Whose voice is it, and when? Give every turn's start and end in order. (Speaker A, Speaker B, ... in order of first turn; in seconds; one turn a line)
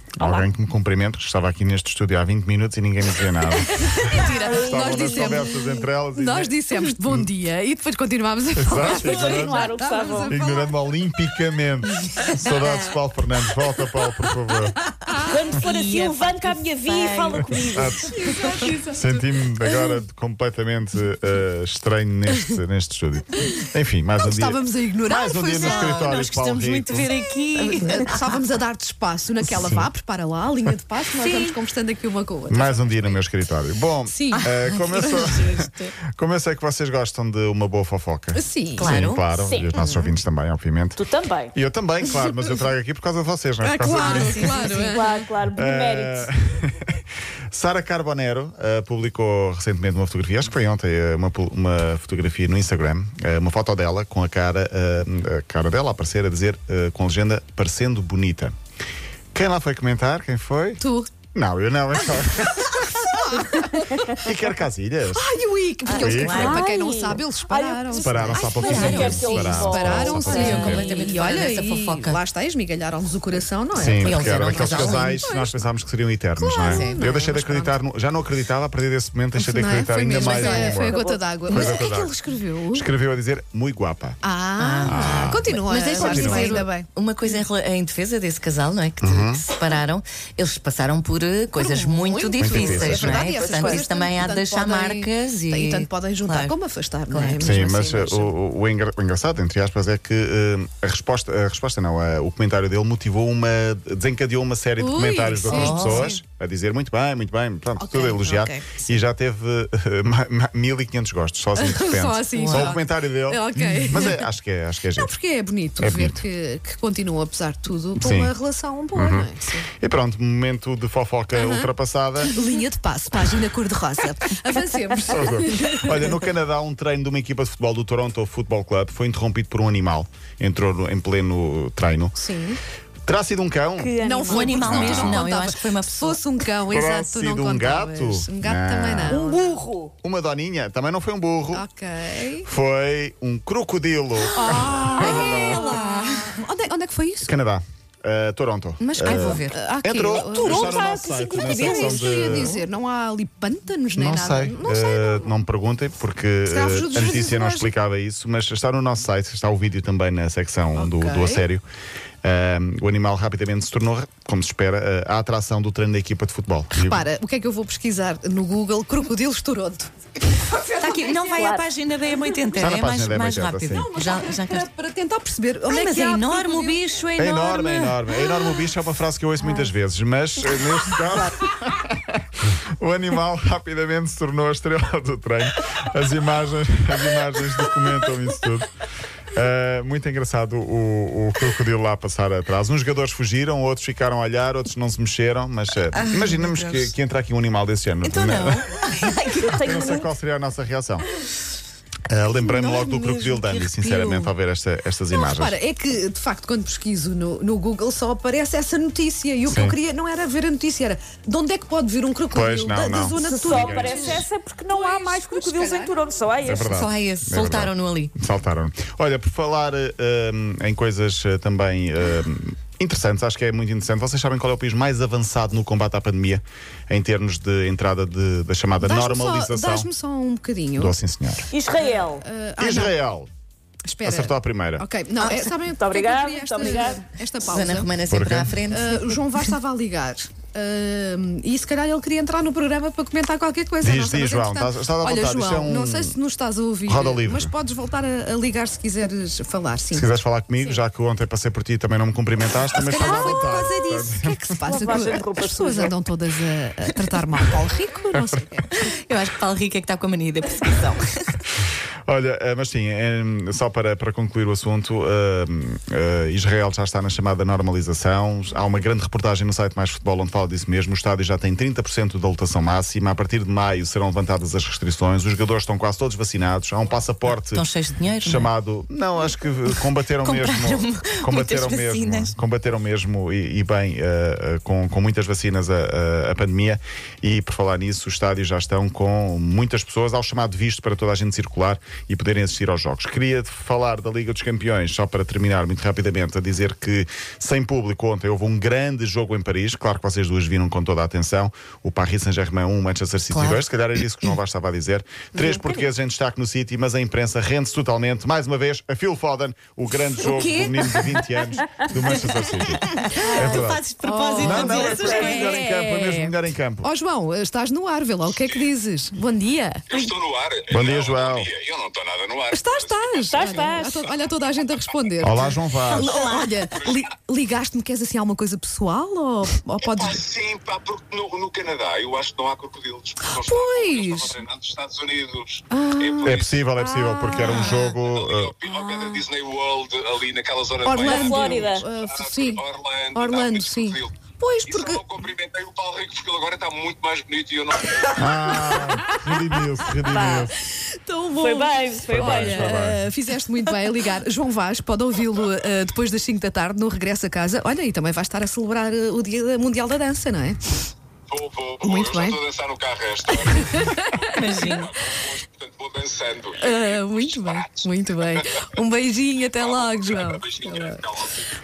Speaker A: 0.2-7.3
Speaker B: 0.2-0.5
Speaker C: 3.5-11.1
Speaker B: 4.3-5.5
Speaker A: 8.5-9.6
Speaker B: 8.8-10.3
Speaker A: 10.3-14.8
Speaker D: 12.1-12.9
Speaker D: 15.1-18.8
Speaker C: 15.1-15.3
Speaker B: 15.2-18.2
Speaker A: 17.6-18.1
Speaker C: 18.1-19.9
Speaker A: 18.9-27.1
Speaker C: 24.2-26.1
Speaker D: 25.5-28.2
Speaker C: 27.1-33.2
Speaker A: 29.5-29.9
Speaker D: 31.2-31.5
Speaker A: 32.5-35.6
Speaker C: 34.1-34.5
Speaker D: 34.3-35.9
Speaker C: 35.0-35.4
Speaker A: 36.1-44.6
Speaker C: 38.3-38.9
Speaker D: 38.8-39.2
Speaker B: 39.4-39.7
Speaker C: 39.7-40.1
Speaker B: 41.0-41.5
Speaker C: 43.6-45.2
Speaker D: 43.8-45.0
Speaker B: 44.9-46.3
Speaker A: 45.5-58.5
Speaker A: 59.3-60.8
Speaker C: 60.8-61.1
Speaker A: 61.3-63.4
Speaker C: 62.6-64.2
Speaker A: 64.2-65.2
Speaker C: 65.1-75.6
Speaker D: 65.8-66.6
Speaker A: 66.0-66.6
Speaker B: 66.3-70.8
Speaker A: 67.9-70.9
Speaker D: 68.3-69.2
Speaker D: 70.1-72.2
Speaker A: 73.7-82.1
Speaker D: 73.8-75.2
Speaker C: 76.4-77.8
Speaker D: 76.6-77.2
Speaker C: 79.3-82.9
Speaker B: 80.2-81.2
Speaker D: 81.5-81.8
Speaker A: 82.7-84.2
Speaker C: 84.2-86.9
Speaker D: 84.6-96.5
Speaker A: 84.8-86.6
Speaker A: 89.0-89.4
Speaker C: 91.5-98.3
Speaker A: 92.4-93.8
Speaker D: 97.1-97.4
Speaker A: 97.4-115.1
Speaker C: 104.8-106.2
Speaker D: 105.4-106.2
Speaker D: 107.8-108.8
Speaker C: 111.5-114.2
Speaker D: 112.3-112.8
Speaker D: 113.6-114.1
Speaker C: 115.0-119.7
Speaker A: 115.8-116.2
Speaker A: 118.0-118.3
Speaker A: 118.9-119.3
Speaker A: 119.8-122.4
Speaker C: 121.3-126.1
Speaker A: 125.1-132.1
Speaker C: 132.1-132.6
Speaker A: 133.1-135.2
Speaker B: 133.8-134.5
Speaker C: 134.0-139.6
Speaker D: 134.3-136.2
Speaker A: 136.7-139.2
Speaker B: 139.1-139.9
Speaker A: 140.0-141.6
Speaker C: 141.5-142.5
Speaker A: 142.4-145.8
Speaker C: 144.2-147.3
Speaker D: 144.4-146.4
Speaker A: 147.2-152.6
Speaker C: 148.8-155.3
Speaker D: 148.9-149.6
Speaker B: 150.4-152.5
Speaker A: 153.9-161.6
Speaker C: 156.4-157.7
Speaker C: 160.7-161.4
Speaker A: 162.2-167.1
Speaker C: 166.7-171.2
Speaker D: 170.8-174.7
Speaker B: 171.1-171.7
Speaker A: 172.6-173.9
Speaker C: 173.7-176.8
Speaker D: 175.7-178.2
Speaker A: 177.2-188.7
Speaker B: 179.4-179.7
Speaker B: 180.4-181.4
Speaker D: 187.2-188.2
Speaker A: 189.3-198.7
Speaker D: 195.9-196.9
Speaker D: 198.0-199.7
Speaker B: 199.3-200.1
Speaker A: 199.5-201.1
Speaker A: 202.1-205.6
Speaker D: 202.3-204.3
Speaker C: 205.1-216.0
Speaker A: 209.5-209.8
Speaker A: 212.3-214.2
Speaker B: 213.2-216.8
Speaker A: 216.4-229.9
Speaker D: 216.7-218.1
Speaker C: 228.8-231.0
Speaker A: 230.8-231.5
Speaker B: 231.5-232.2
Speaker C: 231.7-232.9
Speaker A: 232.6-233.3
Speaker C: 233.8-237.9
Speaker A: 234.0-234.8
Speaker D: 235.2-235.5
Speaker B: 235.8-237.0
Speaker D: 237.4-239.5
Speaker A: 238.1-238.5
Speaker C: 238.7-250.8
Speaker A: 243.8-246.2
Speaker A: 246.9-247.5
Speaker A: 249.9-255.2
Speaker C: 252.7-258.8
Speaker B: 253.0-253.4
Speaker B: 254.7-255.9
Speaker D: 258.7-261.4
Speaker A: 262.1-277.6
Speaker D: 277.2-278.5
Speaker A: 278.2-313.8
Speaker D: 279.6-282.3
Speaker D: 303.3-303.6
Speaker D: 309.9-311.4
Speaker D: 312.2-315.6
Speaker C: 313.2-320.1
Speaker A: 314.4-316.9
Speaker B: 314.9-315.4
Speaker E: 319.9-324.9
Speaker A: 320.7-321.5
Speaker C: 322.5-330.2
Speaker B: 323.3-324.0
Speaker A: 325.2-326.1
Speaker D: 325.9-326.8
Speaker E: 326.7-327.1
Speaker E: 329.8-336.6
Speaker C: 333.2-334.4
Speaker C: 335.7-337.9
Speaker A: 336.2-338.6
Speaker E: 337.6-344.1
Speaker C: 338.7-339.2
Speaker C: 340.8-345.0
Speaker B: 340.9-341.9
Speaker E: 344.6-348.5
Speaker A: 348.1-350.5
Speaker C: 348.5-349.4
Speaker B: 349.9-350.5
Speaker C: 350.7-360.6
Speaker B: 351.3-352.8
Speaker A: 352.1-353.0
Speaker E: 361.3-368.4
Speaker C: 361.8-362.4
Speaker C: 363.3-364.9
Speaker D: 364.3-364.9
Speaker C: 366.6-371.1
Speaker E: 369.5-371.4